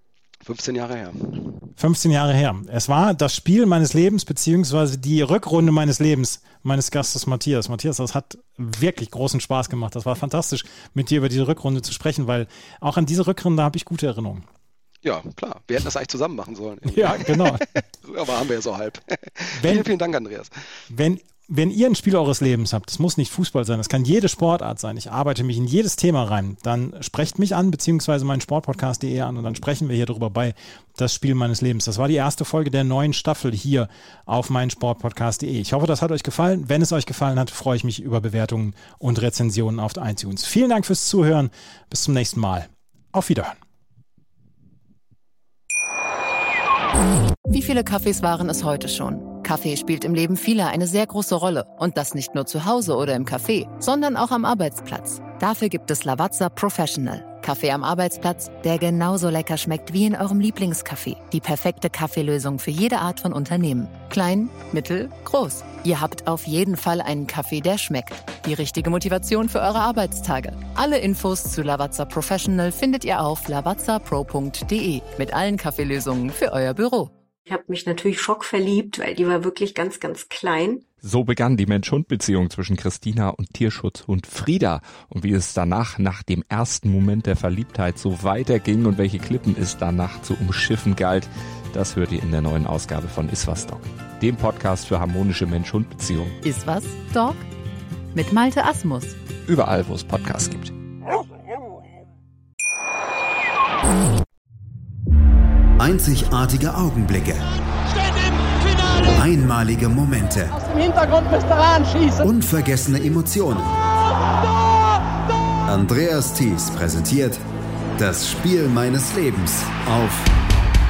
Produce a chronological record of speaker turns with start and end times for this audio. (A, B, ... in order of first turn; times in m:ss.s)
0:00.4-0:01.6 A
0:01.8-0:14.4 B
0:15.0-0:20.5 A
0:16.9-0:17.7 B
0:19.6-0:19.9 B
0:20.9-0:43.6 B
0:47.5-1:17.1 C
1:17.4-1:20.8 D
1:21.0-1:36.4 E
1:36.4-1:37.4 C
1:38.1-1:39.2 C
1:39.4-1:40.7 E
1:45.8-1:47.5 F
1:49.0-1:50.6 F
1:51.1-1:52.1 D
1:52.2-1:53.8 F
1:55.7-1:57.4 F
1:58.0-2:00.3 F